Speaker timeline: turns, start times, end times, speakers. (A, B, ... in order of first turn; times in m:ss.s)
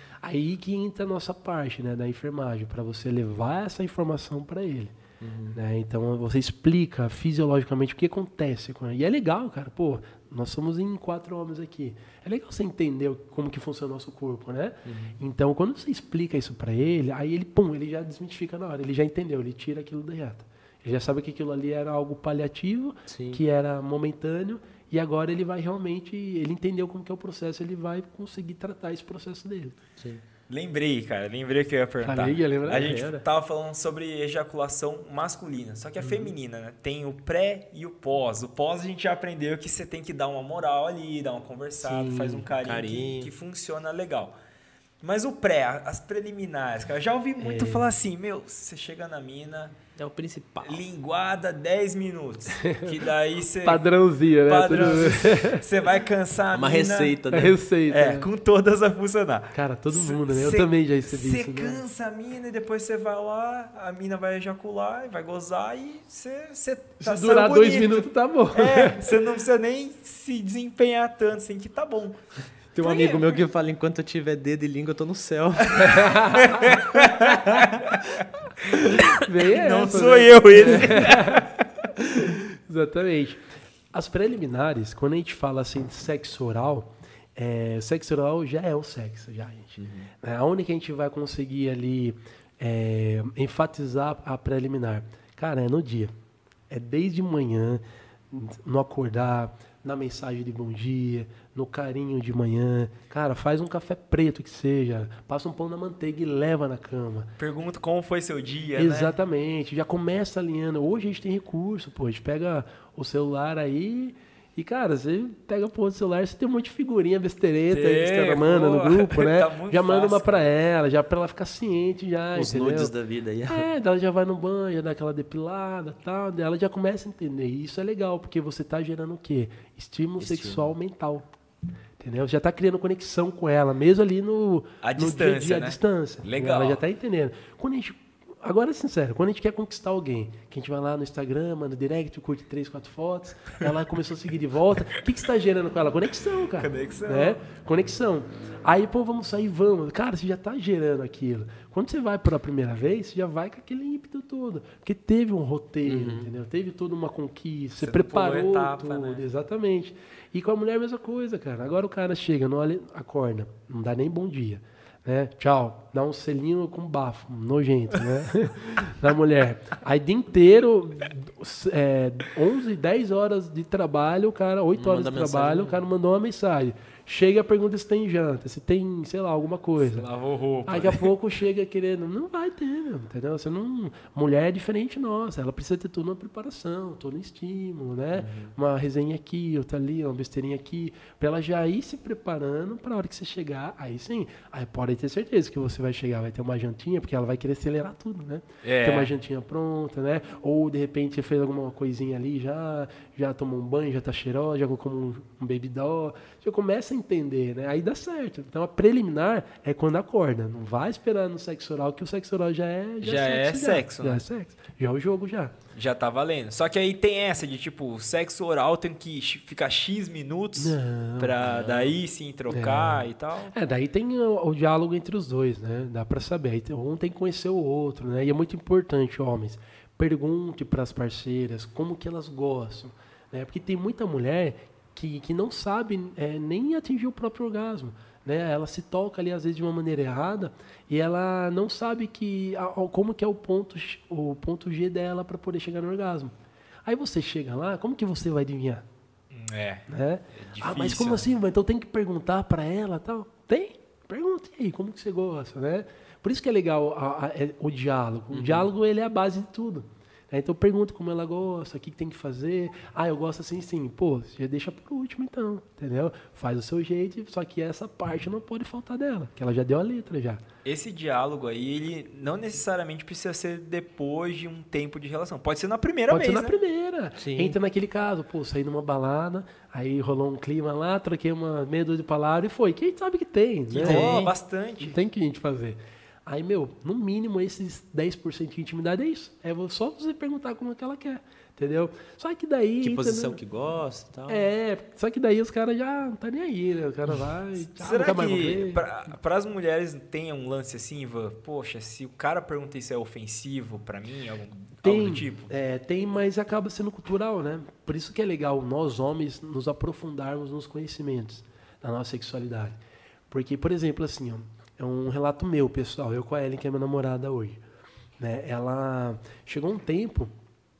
0:00.2-0:04.9 A
0:05.2-0:05.6 B
0:05.5-0:29.8 A
0:14.8-0:15.2 B
0:23.1-0:23.4 B
0:30.5-0:44.3 C
0:32.0-0:33.2 A
0:41.8-0:42.4 A
0:42.5-0:43.3 B
0:45.0-0:49.7 C
0:47.4-0:47.9 A
0:49.9-0:50.8 B
0:50.6-0:53.8 C
0:52.6-0:53.0 A
0:53.6-0:55.6 A
0:54.5-0:57.2 C
0:56.5-0:57.6 B
0:57.3-0:58.3 A
0:57.9-1:12.2 C
0:59.5-1:01.8 A
1:07.0-1:09.1 A
1:12.7-1:16.1 B
1:12.8-1:13.4 C
1:15.8-1:18.0 C
1:15.8-1:16.7 A
1:16.7-1:17.6 B
1:18.7-1:21.6 C
1:19.2-1:21.5 A
1:20.6-1:20.8 B
1:22.1-1:36.1 A
1:29.8-1:30.1 B
1:36.7-1:47.3 A
1:47.4-1:49.1 C
1:48.8-2:02.9 A
1:57.7-2:00.4 C
2:02.3-2:03.7 B
2:03.5-2:11.3 A
2:10.2-2:10.7 B
2:12.0-3:00.0 A
2:14.8-2:16.8 C
2:26.6-2:27.4 C
2:35.8-2:36.3 B
2:37.8-2:39.2 C
2:54.7-2:55.8 B
2:59.8-3:01.1 C
3:00.6-3:35.5 A
3:08.2-3:08.5 B
3:18.6-3:19.1 C
3:33.0-3:34.2 C
3:35.7-3:43.5 C
3:40.6-3:41.5 A
3:41.4-3:41.9 B
3:42.5-4:06.3 A
4:06.8-4:08.8 A
4:09.3-4:09.8 C
4:09.9-4:30.4 A
4:10.5-4:11.2 B
4:10.6-4:11.2 C
4:18.3-4:18.7 B
4:30.6-4:36.6 C
4:36.1-4:44.2 A
4:37.2-4:37.6 B
4:43.7-4:45.0 C
4:43.8-4:44.3 B
4:44.8-4:53.4 A
4:52.8-4:54.5 B
4:54.3-4:58.8 A
4:57.8-5:05.5 C
5:04.8-5:12.8 A
5:13.3-5:17.6 A
5:18.2-5:20.3 A